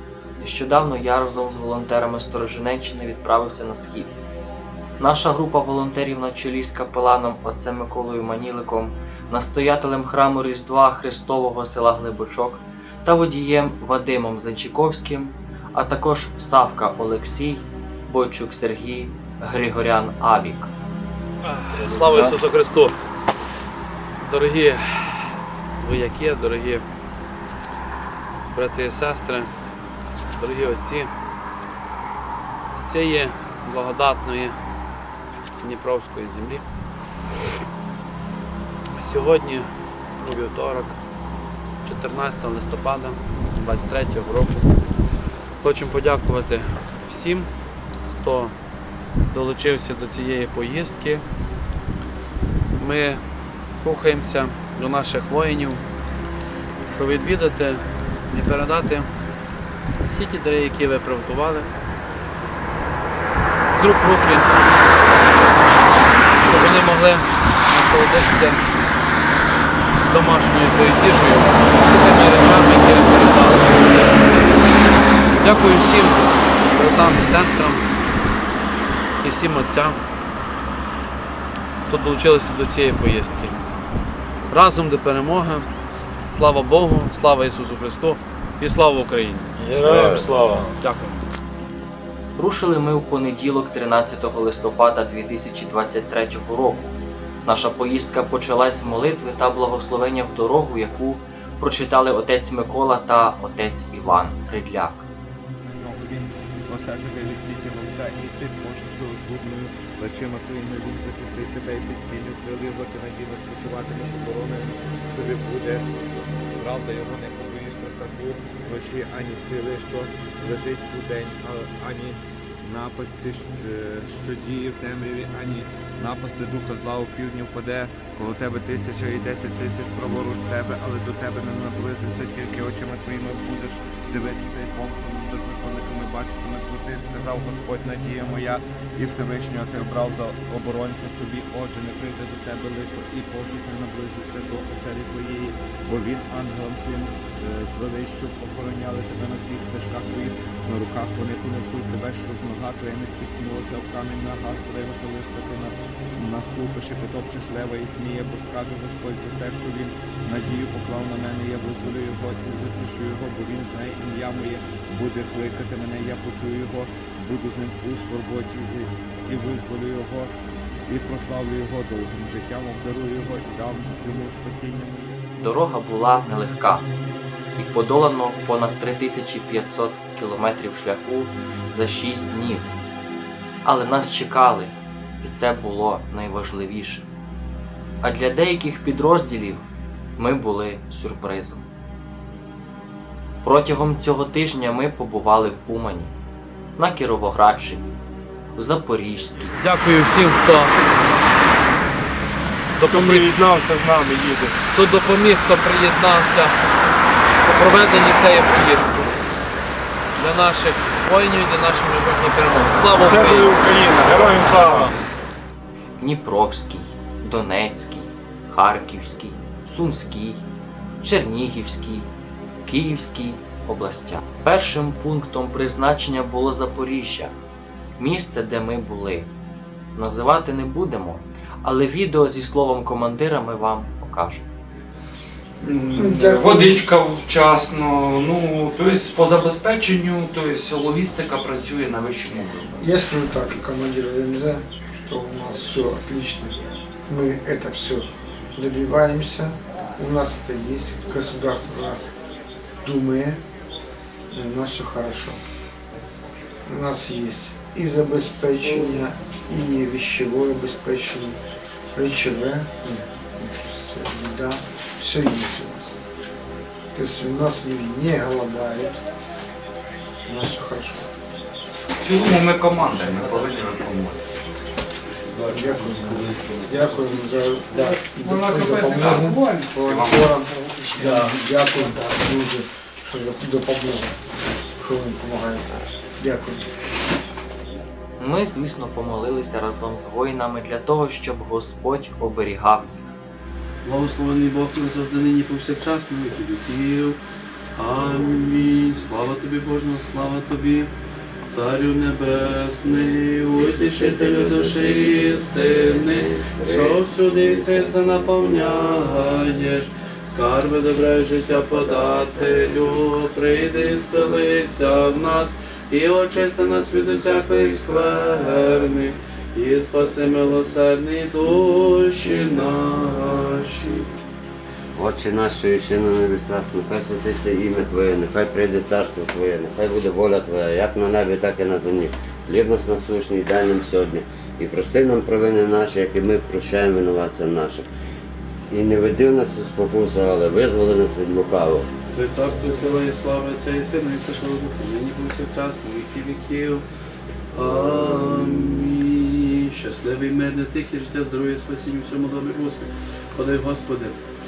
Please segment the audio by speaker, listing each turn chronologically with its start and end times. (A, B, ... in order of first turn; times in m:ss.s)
0:00.4-0:04.1 A
0:05.0-0:20.7 A
0:21.5-0:23.0 B
0:24.2-0:26.8 B
0:28.5-0:29.5 B
0:30.3-0:31.1 B
0:32.7-0:34.6 B
0:35.6-0:36.6 B
0:39.0-0:39.7 B
0:40.2-0:41.0 B
0:41.8-0:44.7 B
0:45.6-0:47.5 B
0:48.2-0:48.6 B
0:49.3-0:51.2 B
0:52.7-0:53.2 B
0:53.8-0:55.8 B
0:56.9-0:59.1 B
1:00.1-1:01.7 B
1:03.7-1:04.5 B
1:06.4-1:08.7 B
1:10.0-1:14.3 B
1:15.4-1:17.9 B
1:19.2-1:20.0 B
1:21.9-1:23.6 B
1:24.5-1:25.7 B
1:26.3-1:30.2 B
1:29.8-1:30.4 C
1:30.8-1:31.2 B
1:32.3-1:45.1 A
1:45.6-1:55.9 D
1:56.5-2:50.3 D
2:50.9-2:55.2 D
2:55.4-2:56.9 A
2:57.6-3:02.7 A
3:03.6-3:07.1 A
3:08.0-3:09.6 A
3:10.2-3:11.6 A
3:13.4-3:16.1 A
3:16.8-3:17.9 A
3:18.6-3:19.6 A
3:19.6-3:20.8 B
3:22.8-3:23.3 B
3:22.8-3:24.6 E
3:24.7-3:26.6 B
3:27.4-3:29.2 B
3:30.2-3:33.5 B
3:33.0-3:35.0 E
3:36.0-3:40.4 A
3:41.0-3:42.1 A
3:42.6-3:47.3 A
3:48.0-3:49.3 A
3:50.0-3:54.4 A
3:55.6-4:02.9 F
3:56.0-3:56.8 G
4:02.8-4:12.1 G
4:12.8-4:13.4 G
4:14.3-4:15.4 G
4:16.6-4:21.4 G
4:21.9-4:26.0 G
4:26.9-4:29.0 G
4:30.2-4:31.1 G
4:32.0-4:34.2 F
4:35.5-4:44.2 G
4:35.5-4:36.1 F
4:36.7-4:37.1 F
4:37.7-4:40.3 F
4:44.8-4:46.7 G
4:48.2-4:53.1 A
4:53.8-4:57.2 B
4:57.7-5:00.9 B
5:01.5-5:24.2 B
5:02.4-5:09.4 C
5:16.3-5:18.2 C
5:24.9-5:37.9 C
5:38.7-5:41.9 C
5:42.1-5:46.8 B
5:47.5-5:54.2 B
5:47.6-5:48.7 C